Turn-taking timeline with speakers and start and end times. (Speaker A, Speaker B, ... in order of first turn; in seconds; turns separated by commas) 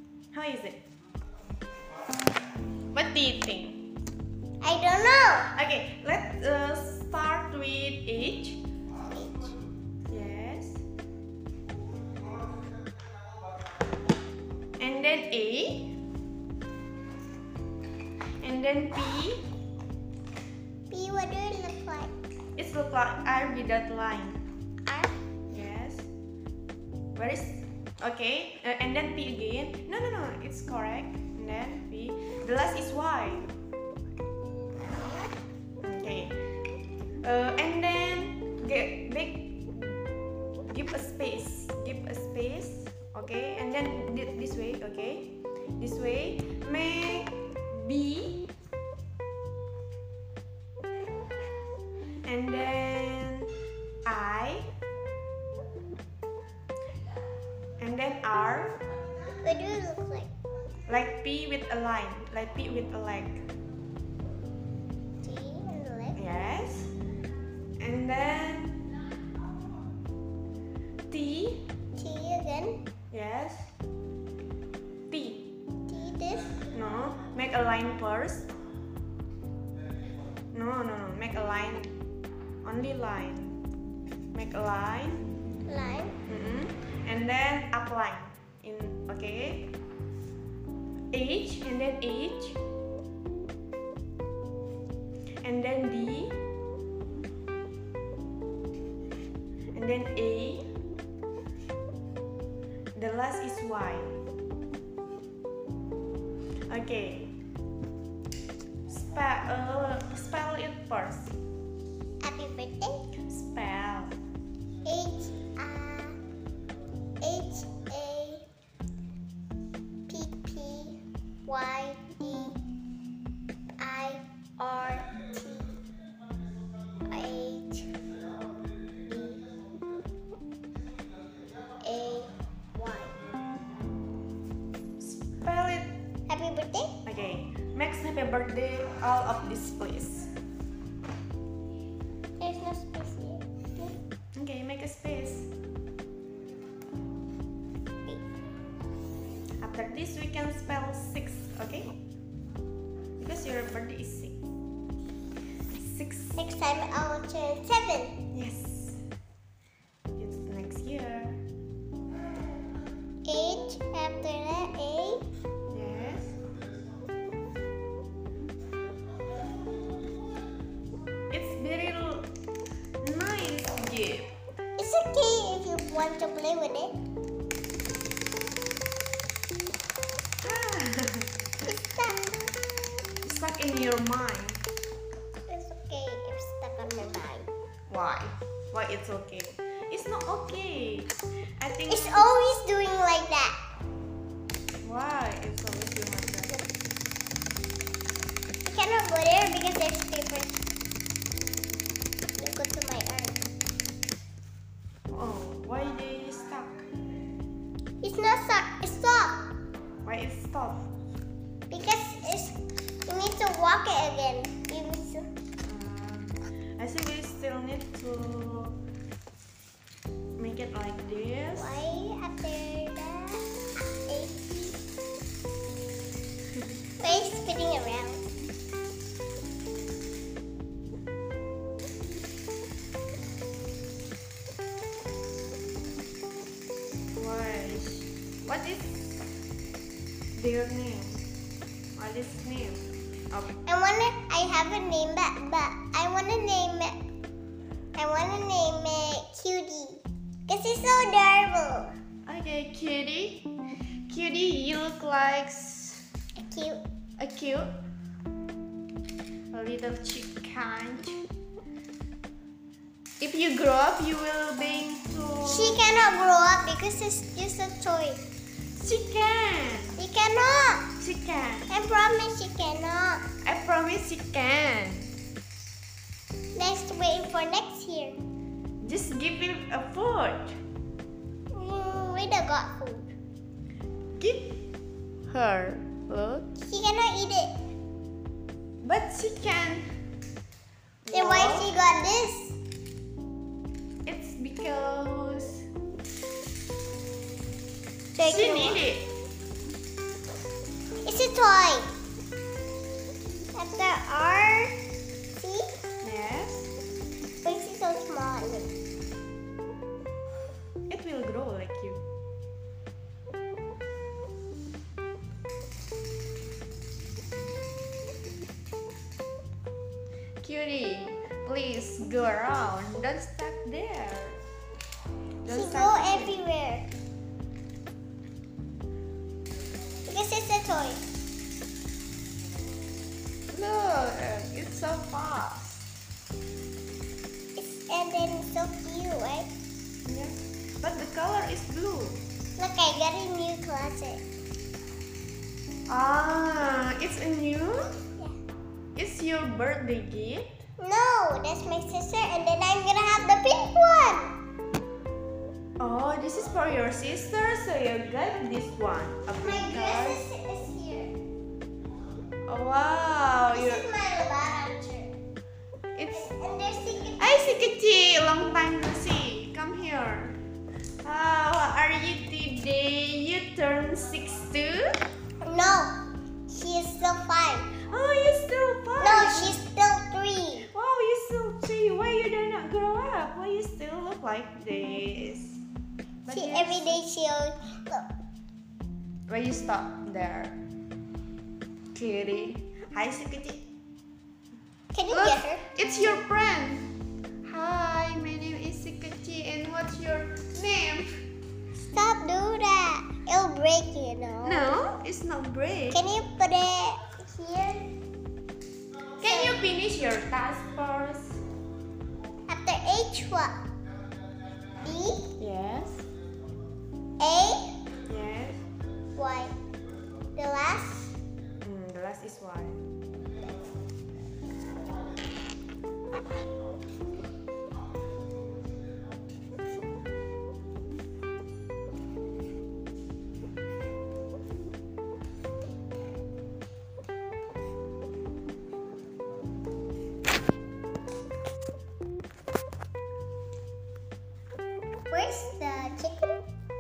Speaker A: 0.3-0.8, Speaker A: 2.9-3.9, Speaker B: 4.6-5.5, Speaker A: 5.5-8.6, Speaker A: 10.1-10.8, Speaker A: 14.8-15.9, Speaker A: 18.4-19.4, Speaker B: 20.9-22.1, Speaker A: 22.6-24.4, Speaker B: 24.9-25.1, Speaker A: 25.5-26.1, Speaker A: 27.1-33.5, Speaker A: 35.8-36.4, Speaker A: 37.2-40.0, Speaker A: 40.7-48.5, Speaker A: 52.2-53.5, Speaker A: 54.0-54.7, Speaker A: 57.8-58.8, Speaker B: 59.4-60.3, Speaker A: 60.9-63.5, Speaker B: 65.2-66.2, Speaker A: 66.2-66.9, Speaker A: 67.8-68.9, Speaker A: 71.1-71.7, Speaker B: 72.0-72.8, Speaker A: 73.1-73.7, Speaker A: 75.1-75.5, Speaker B: 75.9-76.6, Speaker A: 76.7-78.5, Speaker A: 80.5-82.0, Speaker A: 82.6-83.6, Speaker A: 84.3-85.2, Speaker B: 85.7-86.2, Speaker A: 86.3-89.7, Speaker A: 91.1-92.6, Speaker A: 95.4-96.4, Speaker A: 99.7-100.7, Speaker A: 103.0-104.2, Speaker A: 106.7-107.3, Speaker A: 108.9-111.4, Speaker B: 112.2-113.1, Speaker A: 113.3-114.2, Speaker B: 114.8-116.2, Speaker B: 117.2-118.5, Speaker B: 120.1-122.6, Speaker B: 123.8-125.8, Speaker B: 127.0-127.9, Speaker B: 129.1-129.4, Speaker B: 131.8-133.2, Speaker A: 135.0-135.9, Speaker B: 136.3-137.0, Speaker A: 137.1-140.3, Speaker B: 142.4-144.0, Speaker A: 144.3-145.5, Speaker A: 149.6-152.0, Speaker A: 153.2-154.4, Speaker A: 155.7-156.4, Speaker B: 156.4-158.2, Speaker A: 158.3-159.0, Speaker A: 160.2-161.4, Speaker B: 163.2-165.3, Speaker A: 165.7-166.4, Speaker A: 171.3-172.3, Speaker A: 173.0-174.3, Speaker B: 174.8-176.9, Speaker A: 180.4-181.3, Speaker B: 181.7-182.3, Speaker A: 183.2-184.6, Speaker B: 185.5-187.5, Speaker A: 187.9-192.3, Speaker B: 191.9-193.6, Speaker A: 194.8-196.6, Speaker B: 198.7-200.6, Speaker B: 202.4-203.5, Speaker A: 205.1-206.8, Speaker B: 208.0-209.5, Speaker A: 210.0-210.9, Speaker B: 211.7-215.3, Speaker A: 215.6-218.8, Speaker A: 220.4-221.8, Speaker B: 221.5-223.5, Speaker B: 224.1-224.8, Speaker B: 227.0-228.2, Speaker A: 237.1-239.0, Speaker A: 240.3-241.3, Speaker A: 242.0-243.6, Speaker B: 243.7-247.0, Speaker B: 248.0-251.9, Speaker A: 252.3-253.5, Speaker A: 254.1-256.1, Speaker B: 256.4-256.8, Speaker A: 257.2-257.7, Speaker A: 259.5-261.2, Speaker A: 263.2-265.8, Speaker B: 265.4-268.2, Speaker A: 268.8-270.0, Speaker B: 270.0-270.9, Speaker A: 271.0-271.7, Speaker B: 271.7-273.2, Speaker A: 273.4-275.1, Speaker B: 276.6-278.2, Speaker A: 278.8-280.6, Speaker B: 281.5-283.1, Speaker A: 284.1-284.6, Speaker A: 285.3-286.5, Speaker B: 286.6-287.6, Speaker A: 288.8-289.9, Speaker A: 291.1-291.7, Speaker B: 291.1-292.6, Speaker A: 294.1-295.7, Speaker B: 298.1-298.8, Speaker A: 298.2-299.1, Speaker B: 301.0-301.9, Speaker B: 303.5-304.8, Speaker B: 305.4-305.7, Speaker A: 306.0-306.7, Speaker B: 307.4-308.7, Speaker A: 310.9-312.0, Speaker A: 320.4-324.4, Speaker A: 325.4-326.4, Speaker B: 325.5-326.9, Speaker B: 330.1-331.0, Speaker A: 333.5-335.9, Speaker B: 337.6-339.5, Speaker A: 340.1-342.2, Speaker B: 342.6-344.2, Speaker A: 345.9-348.0, Speaker A: 348.9-350.6, Speaker B: 350.8-354.3, Speaker A: 355.8-360.2, Speaker B: 359.4-361.1, Speaker A: 362.5-363.9, Speaker B: 363.5-365.1, Speaker A: 366.0-366.3, Speaker B: 366.1-367.5, Speaker A: 367.2-370.4, Speaker A: 371.0-375.0, Speaker B: 375.4-377.7, Speaker A: 377.8-379.6, Speaker B: 379.0-380.7, Speaker A: 380.7-385.6, Speaker A: 386.2-387.0, Speaker B: 386.3-388.1, Speaker A: 389.3-390.6, Speaker A: 391.9-393.7, Speaker B: 394.9-395.6, Speaker A: 395.1-396.9, Speaker A: 397.4-401.1, Speaker B: 401.8-404.7, Speaker A: 404.4-406.1, Speaker B: 405.9-407.9, Speaker B: 409.2-409.6, Speaker A: 409.2-411.4, Speaker B: 412.5-413.6, Speaker B: 414.8-415.3, Speaker A: 415.4-416.1, Speaker B: 417.2-417.7, Speaker A: 418.1-418.6, Speaker B: 419.2-419.5, Speaker B: 420.4-421.2, Speaker A: 421.6-422.8, Speaker B: 445.1-446.4